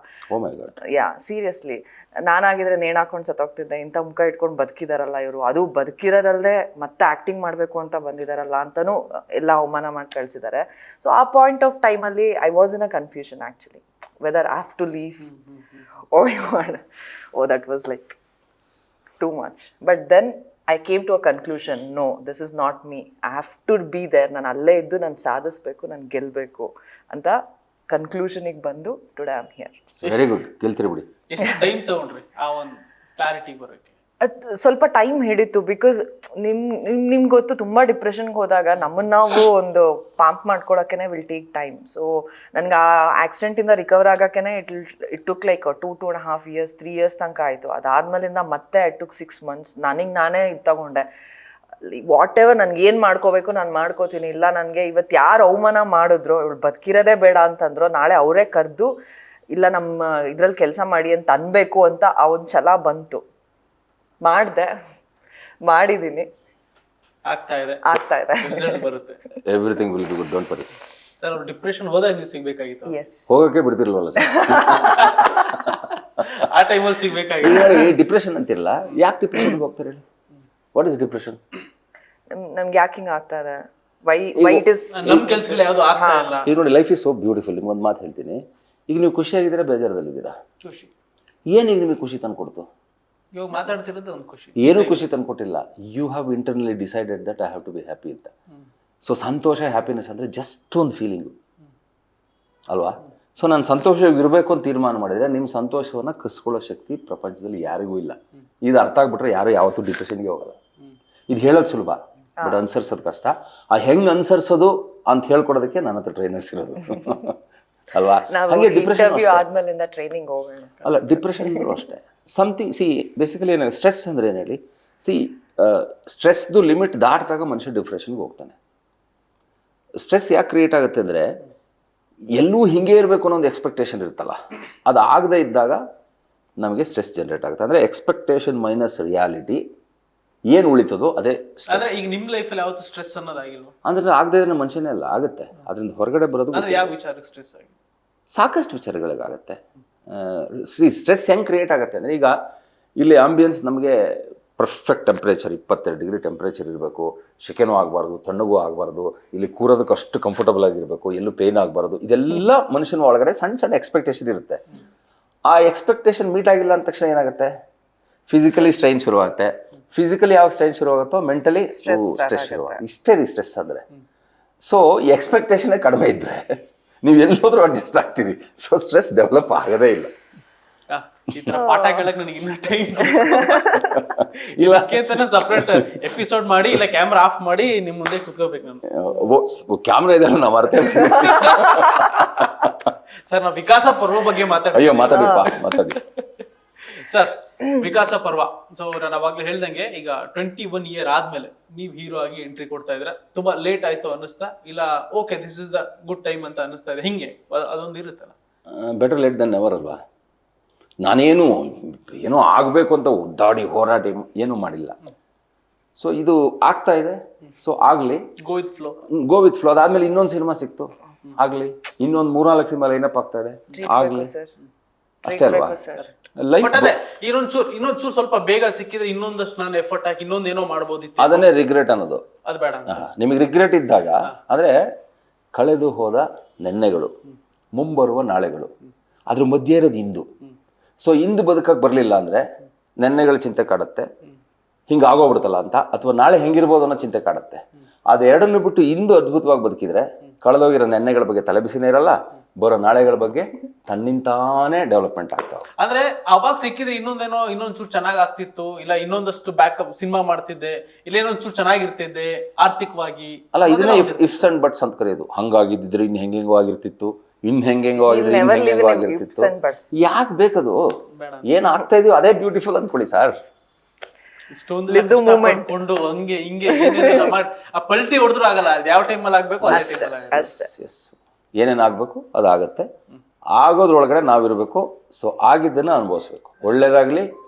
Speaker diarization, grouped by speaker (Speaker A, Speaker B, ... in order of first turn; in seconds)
Speaker A: 0.3-0.7, 30.0-31.1, 69.4-70.7, 73.3-75.7, 77.4-80.0, 80.7-81.4, 84.3-85.3, 86.4-90.3, 91.5-92.7, 94.6-98.3, 99.0-101.3, 102.7-110.5, 111.3-117.4, 117.9-119.4, 120.8-128.6, 130.0-131.3, 132.3-135.8, 136.6-139.6, 140.5-141.9, 143.8-146.9, 148.3-152.3, 153.0-164.6, 165.4-167.5, 168.3-173.8, 174.6-180.1, 183.6-186.2, 188.9-192.9, 194.7-196.0, 208.7-210.0, 211.0-215.0, 215.9-218.2, 219.1-224.3, 225.2-225.8, 226.3-227.0, 231.2-232.2, 232.9-234.8, 235.5-237.1, 237.7-238.7, 239.3-240.3, 241.0-242.4, 243.0-244.1, 244.9-255.7, 263.5-270.8, 271.4-273.4, 279.6-282.9, 283.5-287.3
Speaker B: 0.9-15.2, 16.1-16.8, 17.3-18.2, 19.2-27.4, 27.9-29.8, 34.2-51.0, 51.8-58.9, 59.5-63.2, 64.2-64.7, 65.6-66.3, 67.8-68.8, 72.8-73.4, 74.2-75.3, 82.3-86.4, 118.3-121.7, 171.7-172.8, 181.5-182.1, 183.2-183.9, 223.8-224.5, 225.2-226.1, 268.0-269.9, 274.9-275.7, 276.7-277.4, 279.6-280.7
Speaker C: 15.2-15.8, 30.0-30.3, 31.3-33.9, 67.3-67.9, 68.4-69.2, 71.2-73.0, 74.8-77.8, 84.9-86.5, 90.6-90.9, 93.3-95.0, 141.7-143.7, 146.5-147.7, 180.9-183.7, 184.4-188.8, 191.2-192.3, 193.2-196.1, 196.9-208.3, 218.4-219.0, 226.0-231.5, 232.4-233.0, 255.8-264.4, 271.1-271.5, 274.5-280.4